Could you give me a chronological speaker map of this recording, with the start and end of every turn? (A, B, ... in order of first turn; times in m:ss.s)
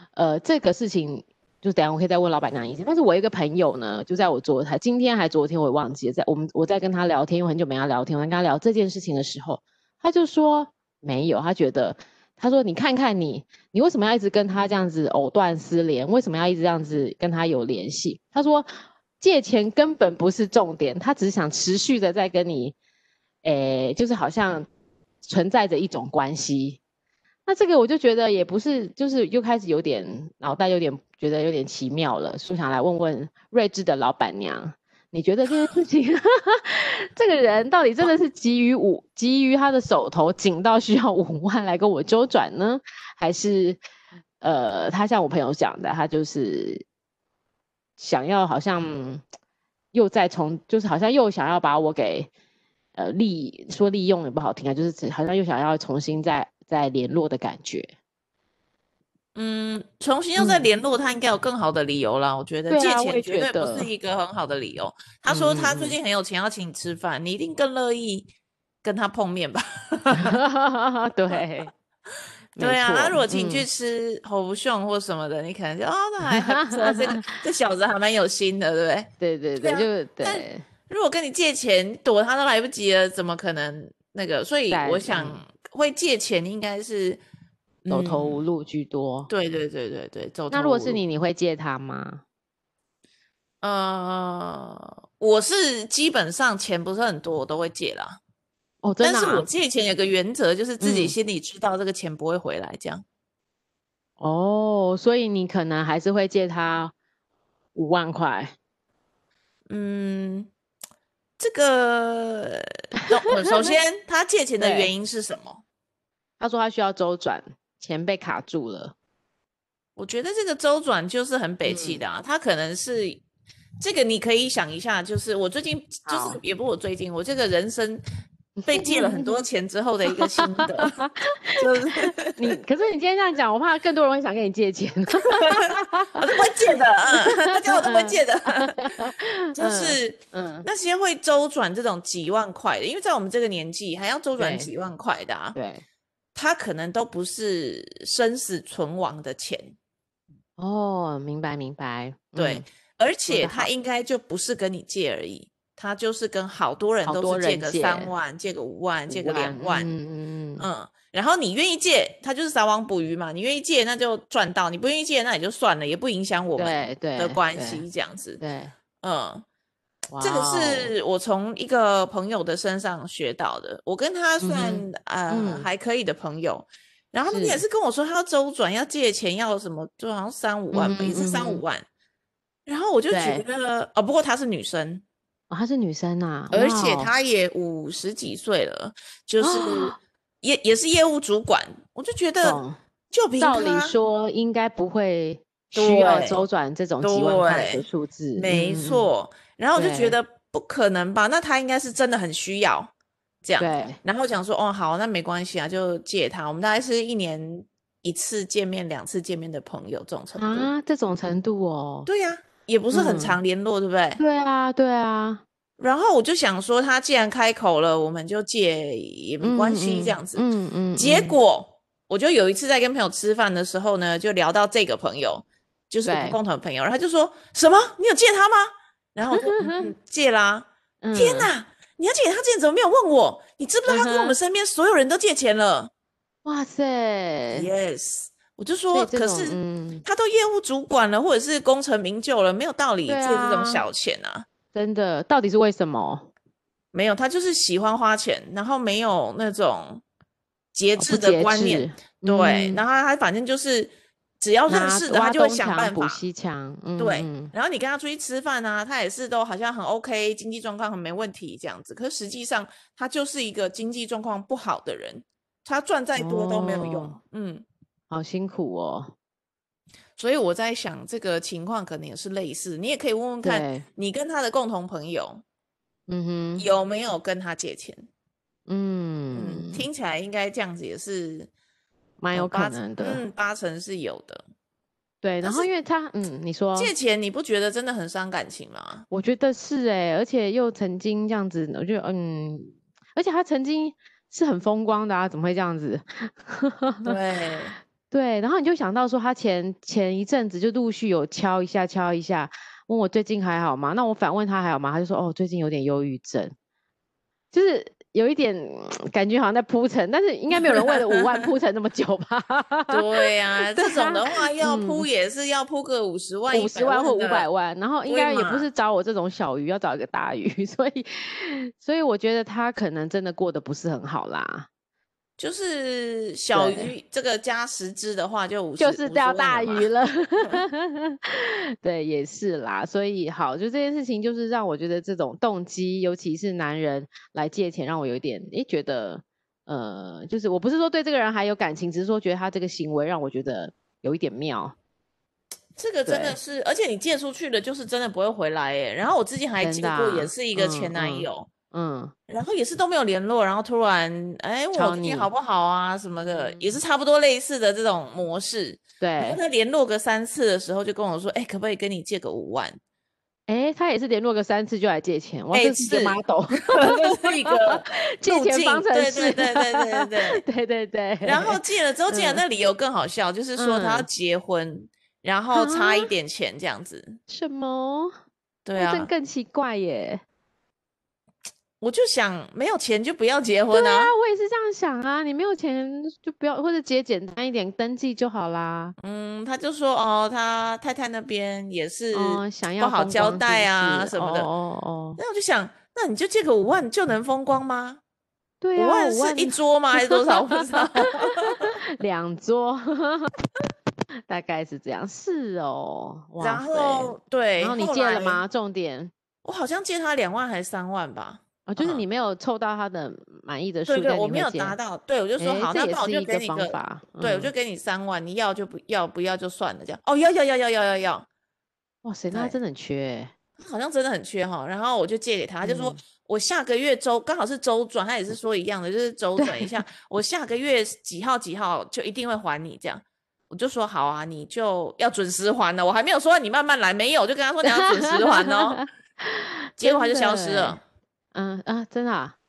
0:00.2-0:18.7 A
0:19.2-0:22.7 A
0:23.4-0:24.6 A
0:25.2-0:26.8 A
0:27.4-0:43.8 A
0:44.4-0:46.8 A
0:48.0-0:49.2 A
0:49.9-0:52.3 A
0:52.9-0:57.9 A
0:59.3-1:08.3 B
1:00.4-1:00.7 A
1:02.7-1:03.9 A
1:05.3-1:06.0 A
1:08.8-1:10.4 B
1:10.1-1:11.7 A
1:12.6-1:13.7 A
1:12.6-1:27.2 B
1:16.2-1:17.4 A
1:19.2-1:20.6 A
1:24.7-1:25.4 A
1:27.8-1:28.4 B
1:27.9-1:29.3 A
1:29.3-1:31.0 B
1:30.5-1:32.2 A
1:33.6-1:38.2 B
1:38.8-1:39.5 A
1:39.0-1:43.0 B
1:40.8-1:41.2 A
1:44.2-1:46.9 A
1:47.7-1:48.5 A
1:49.7-1:50.5 B
1:51.4-1:55.6 B
1:53.0-1:53.8 A
1:54.6-1:54.9 A
1:56.4-1:58.9 A
2:00.0-2:03.2 B
2:01.6-2:02.0 A
2:03.8-2:08.0 B
2:06.0-2:06.4 A
2:08.6-2:09.4 A
2:08.7-2:11.0 B
2:10.0-2:20.7 A
2:11.6-2:12.4 B
2:15.2-2:18.8 B
2:19.6-2:25.6 B
2:24.4-2:24.7 A
2:25.5-2:25.8 A
2:26.3-2:29.7 B
2:30.6-2:32.6 A
2:32.4-2:39.9 B
2:33.3-2:33.7 A
2:37.0-2:38.1 A
2:39.1-2:40.7 A
2:40.6-2:48.4 B
2:46.6-2:47.8 A
2:48.4-2:48.7 A
2:49.0-2:49.4 B
2:50.1-2:50.9 A
2:50.2-3:01.8 B
2:54.4-2:55.7 A
2:57.3-2:57.6 A
3:00.7-3:01.6 A
3:02.6-3:05.0 B
3:03.1-3:03.4 A
3:05.5-3:07.1 A
3:06.5-3:12.6 B
3:09.4-3:10.0 A
3:12.4-3:12.8 A
3:13.1-3:14.0 B
3:13.4-3:19.1 A
3:15.7-3:16.4 B
3:17.0-3:17.8 B
3:18.3-3:22.9 B
3:19.7-3:20.2 A
3:23.4-3:30.7 B
3:23.6-3:24.0 A
3:30.4-3:32.1 A
3:32.0-3:34.2 B
3:32.9-3:33.4 A
3:34.2-3:35.4 A
3:35.8-3:40.4 B
3:39.4-3:41.4 A
3:41.0-3:55.9 B
3:46.0-3:46.4 A
3:49.3-3:49.9 A
3:51.0-3:51.5 A
3:53.9-3:54.4 A
3:56.4-3:57.7 A
3:57.5-4:04.4 B
3:58.9-4:00.0 A
4:03.0-4:03.8 A
4:04.7-4:06.3 A
4:06.9-4:10.0 B
4:10.7-4:16.2 B
4:11.0-4:12.8 A
4:14.7-4:17.5 A
4:17.0-4:27.6 B
4:26.2-4:27.2 A
4:28.1-4:29.1 A
4:30.2-4:35.4 B
4:33.4-4:33.8 A
4:36.1-4:36.7 A
4:36.6-4:38.1 B
4:38.7-4:39.8 A
4:39.3-4:41.5 B
4:42.2-4:43.2 A
4:42.3-4:44.4 B
4:45.2-4:46.9 A
4:45.4-4:45.7 B
4:46.8-4:49.0 B
4:49.1-4:57.1 A
4:57.0-4:57.7 B
4:58.1-5:06.5 A
5:07.5-5:15.1 A
5:10.6-5:11.2 B
5:12.9-5:17.5 B
5:16.5-5:24.7 A
5:18.1-5:18.7 B
5:25.4-5:29.9 B
5:26.5-5:26.9 A
5:28.8-5:44.7 A
5:45.8-5:51.5 B
5:46.0-5:46.4 A
5:49.6-5:52.1 A
5:52.3-6:02.8 B
5:54.7-5:55.3 A
5:56.3-5:56.7 A
5:59.0-5:59.4 A
6:03.5-6:12.4 A
6:05.5-6:10.4 B
6:11.2-6:17.2 B
6:13.6-6:14.1 A
6:15.5-6:16.1 A
6:17.3-6:18.1 A
6:18.6-6:19.1 B
6:18.8-6:20.2 A
6:21.8-6:24.1 B
6:23.7-6:28.9 A
6:29.0-6:34.5 B
6:32.1-6:35.2 A
6:35.2-6:38.0 B
6:38.6-6:43.3 A
6:38.8-6:41.7 B
6:44.3-6:49.1 A
6:46.4-6:48.4 B
6:49.4-6:52.0 B
6:51.7-6:54.8 A
6:53.9-7:01.3 B
6:55.4-6:57.5 A
7:02.0-7:03.3 A
7:02.3-7:02.6 B
7:03.6-7:18.8 B
7:05.6-7:06.0 A
7:09.4-7:09.8 A
7:17.6-7:20.8 A
7:19.8-7:20.8 B
7:21.3-7:22.4 A